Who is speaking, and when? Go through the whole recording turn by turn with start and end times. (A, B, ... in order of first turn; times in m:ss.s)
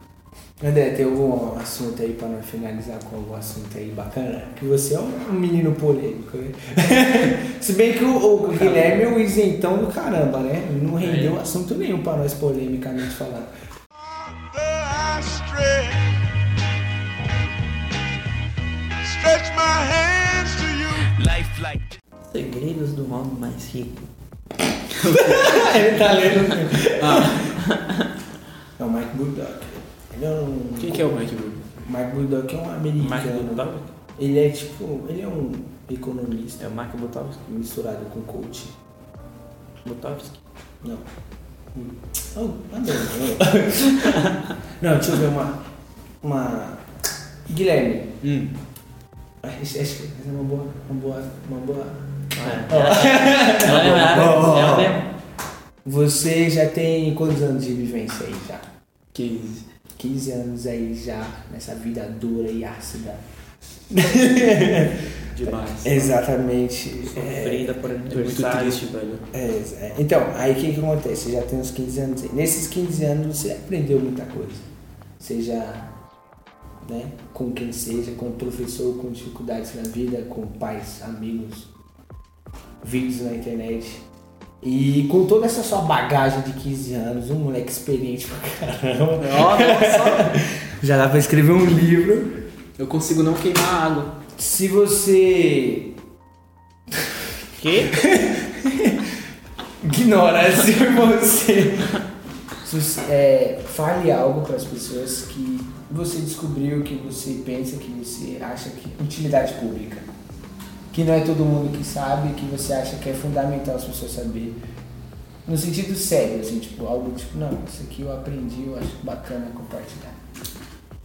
0:00.6-0:13.5 A
0:08.5-0:09.0 B
0:11.0-0:11.4 B
0:19.3-0:20.9 A
0:22.3-0:24.1 C
0:24.9-0:26.1 B
0:25.1-0:27.5 A
0:27.0-0:27.5 B
0:28.8-0:31.1 A
0:30.8-0:31.6 B
0:31.8-0:33.6 A
0:33.0-0:33.9 C
0:34.2-0:36.6 A
0:36.6-0:37.4 C
0:37.4-0:38.7 A
0:39.8-0:40.4 C
0:41.7-0:45.6 A
0:44.0-0:44.3 C
0:46.2-0:46.8 A
0:47.5-0:48.1 A
0:48.2-0:48.5 B
0:49.4-0:55.0 A
0:52.4-0:55.1 C
0:55.8-0:58.6 A
0:59.1-0:59.6 B
1:00.0-1:03.2 A
1:03.9-1:05.1 A
1:05.3-1:06.2 B
1:05.8-1:07.7 A
1:07.1-1:08.8 C
1:08.1-1:09.2 B
1:09.3-1:14.6 A
1:15.2-1:15.9 A
1:16.8-1:21.7 A
1:22.8-1:24.0 A
1:24.6-1:32.3 A
1:29.2-1:30.4 B
1:32.8-1:34.1 B
1:34.4-1:35.9 A
1:37.6-1:38.0 C
1:37.9-1:39.1 A
1:39.8-1:42.0 A
1:42.6-1:50.0 A
1:50.9-1:54.6 A
1:55.4-2:00.2 A